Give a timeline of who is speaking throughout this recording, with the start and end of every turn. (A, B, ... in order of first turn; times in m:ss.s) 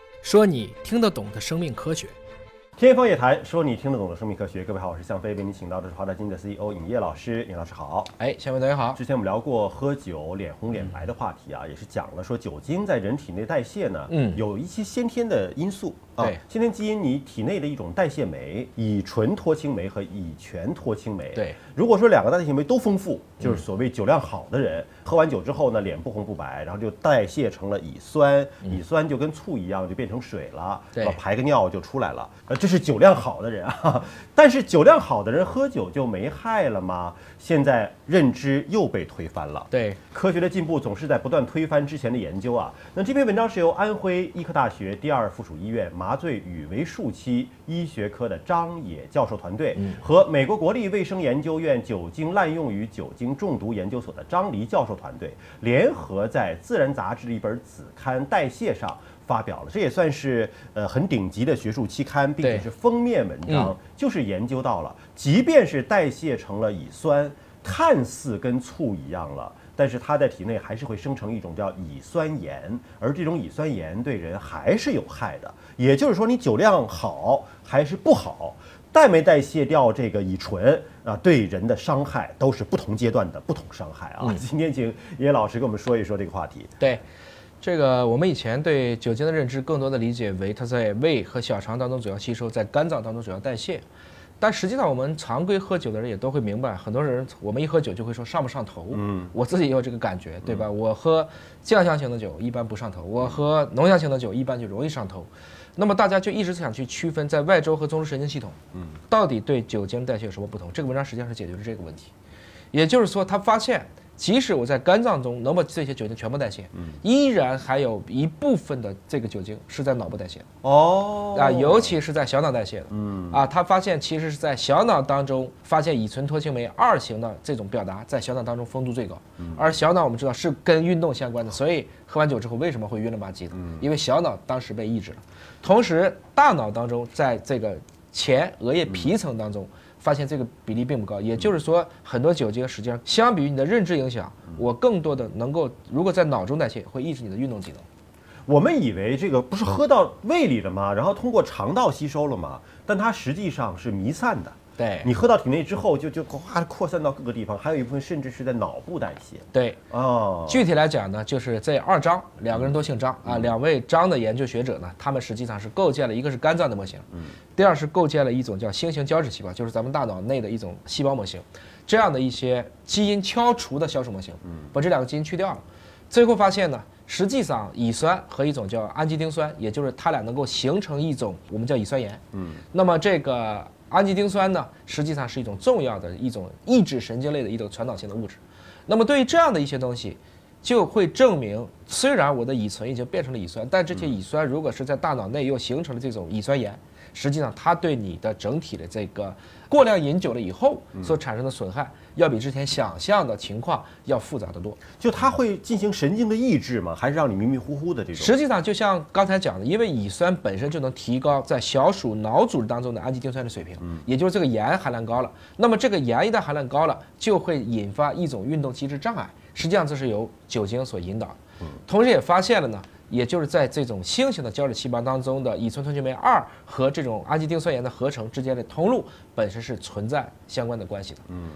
0:00.2-0:02.1 A
0:02.8-0:08.1 B
0:08.2-0:09.0 A
0:08.9-1:26.7 B
0:14.1-0:14.4 A
0:39.7-0:40.0 A
0:49.8-0:50.0 A
1:03.5-1:03.7 A
1:27.6-1:33.8 A
1:34.4-1:52.1 A
1:38.9-1:39.3 B
1:52.7-2:00.5 A
2:00.6-2:02.0 B
2:01.3-2:27.8 A
2:02.9-2:03.4 B
2:28.5-2:40.6 B
2:34.8-2:35.1 A
2:39.5-2:39.8 A
2:40.5-3:24.8 A
3:02.3-3:02.6 B
3:25.0-3:28.4 B
3:28.2-3:51.2 A